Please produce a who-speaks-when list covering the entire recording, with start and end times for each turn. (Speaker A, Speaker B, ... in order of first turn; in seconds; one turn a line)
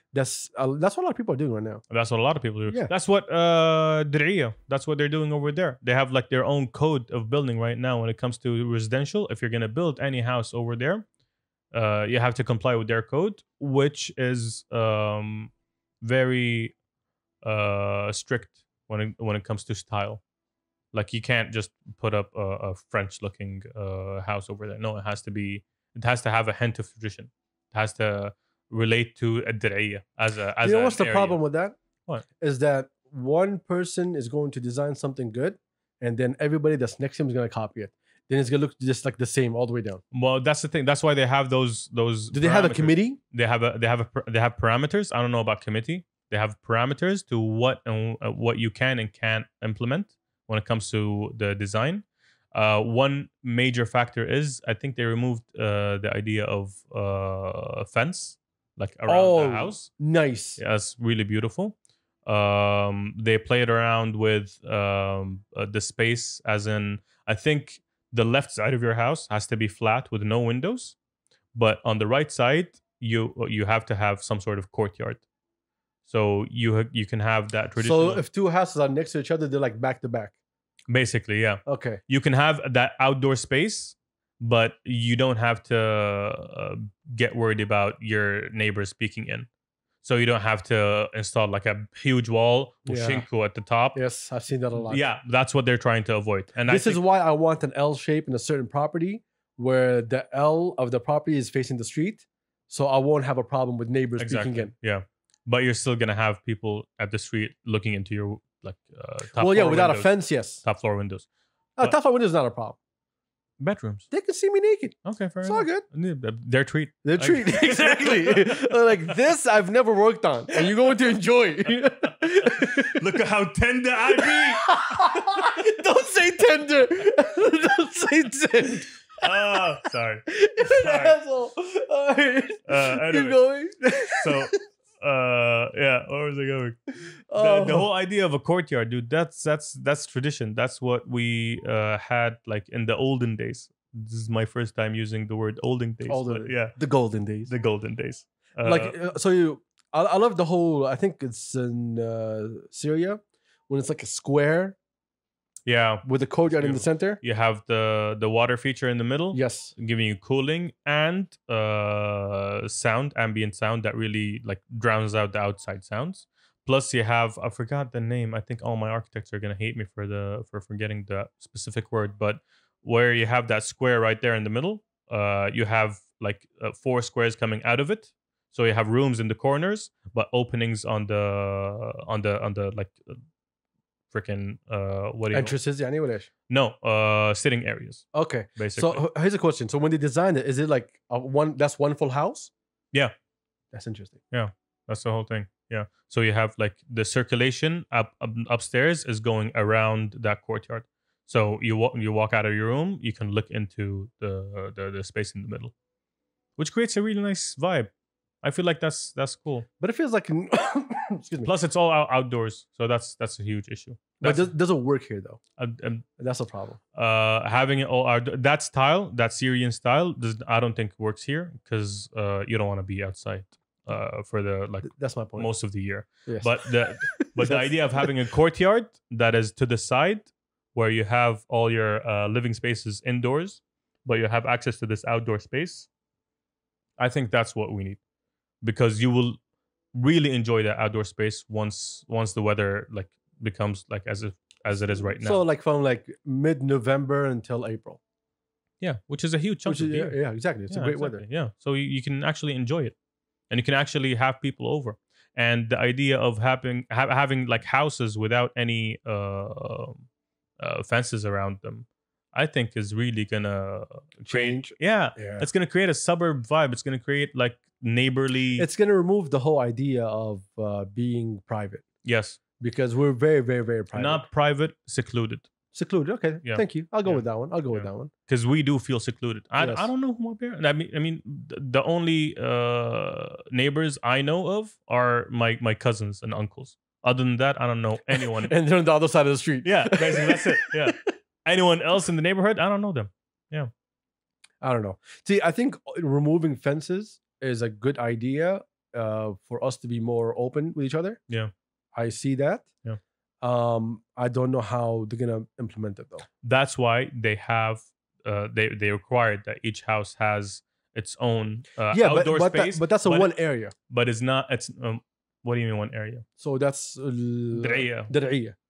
Speaker A: 0.1-1.8
Speaker B: 1.9-11.0
Speaker B: 11.7-15.5
Speaker B: 16.0-16.7
Speaker B: 17.4-20.2
Speaker B: 20.9-31.4
Speaker A: 30.6-31.8
Speaker A: 32.4-40.0
Speaker B: 40.1-59.9
Speaker A: 42.3-43.2
Speaker A: 59.1-60.6
Speaker B: 60.6-71.0
Speaker B: 71.5-75.2
Speaker B: 76.1-78.2
Speaker A: 77.8-80.3
Speaker B: 80.9-89.5
Speaker A: 81.7-82.0
Speaker B: 90.0-94.0
Speaker A: 92.8-93.3
Speaker A: 93.9-95.0
Speaker B: 94.7-97.0
Speaker A: 96.7-104.7
Speaker B: 104.2-111.3
Speaker A: 109.4-110.6
Speaker A: 111.8-112.8
Speaker B: 113.6-114.1
Speaker A: 114.1-115.8
Speaker B: 115.0-118.7
Speaker A: 117.0-122.9
Speaker B: 122.0-124.7
Speaker A: 124.2-129.0
Speaker B: 129.2-131.2
Speaker A: 130.3-134.5
Speaker B: 132.7-133.4
Speaker B: 134.2-146.8
Speaker A: 137.3-137.9
Speaker A: 146.1-147.5
Speaker B: 147.5-148.9
Speaker A: 148.6-154.8
Speaker B: 155.7-183.1
Speaker A: 156.0-157.2
Speaker A: 159.3-159.7
Speaker B: 184.1-185.6
Speaker A: 185.3-186.3
Speaker B: 186.5-188.0
Speaker A: 188.1-192.5
Speaker B: 188.6-189.0
Speaker A: 193.7-194.2
Speaker B: 194.3-205.7
Speaker B: 206.6-207.9
Speaker B: 208.4-209.7
Speaker A: 209.8-211.5
Speaker B: 211.4-214.5
Speaker A: 214.2-215.4
Speaker B: 215.6-216.1
Speaker A: 216.2-216.8
Speaker B: 216.9-235.9
Speaker A: 224.8-225.5
Speaker A: 226.3-228.1
Speaker B: 237.0-238.0
Speaker B: 238.6-239.4
Speaker B: 239.9-245.4
Speaker A: 244.9-248.0
Speaker B: 248.8-250.2
Speaker A: 249.6-251.2
Speaker B: 250.7-252.9
Speaker B: 253.5-260.0
Speaker B: 260.6-268.7
Speaker A: 264.2-265.5
Speaker A: 268.6-271.8
Speaker B: 272.0-272.4
Speaker A: 272.6-274.3
Speaker B: 273.9-275.5
Speaker A: 275.7-278.1
Speaker B: 276.4-288.5
Speaker A: 279.6-279.9
Speaker A: 288.1-290.9
Speaker B: 289.6-293.7
Speaker A: 294.6-301.2
Speaker A: 301.9-302.6
Speaker A: 303.4-306.2
Speaker B: 306.4-313.3
Speaker A: 311.9-313.7
Speaker B: 313.9-316.2
Speaker A: 316.4-318.5
Speaker B: 317.5-318.1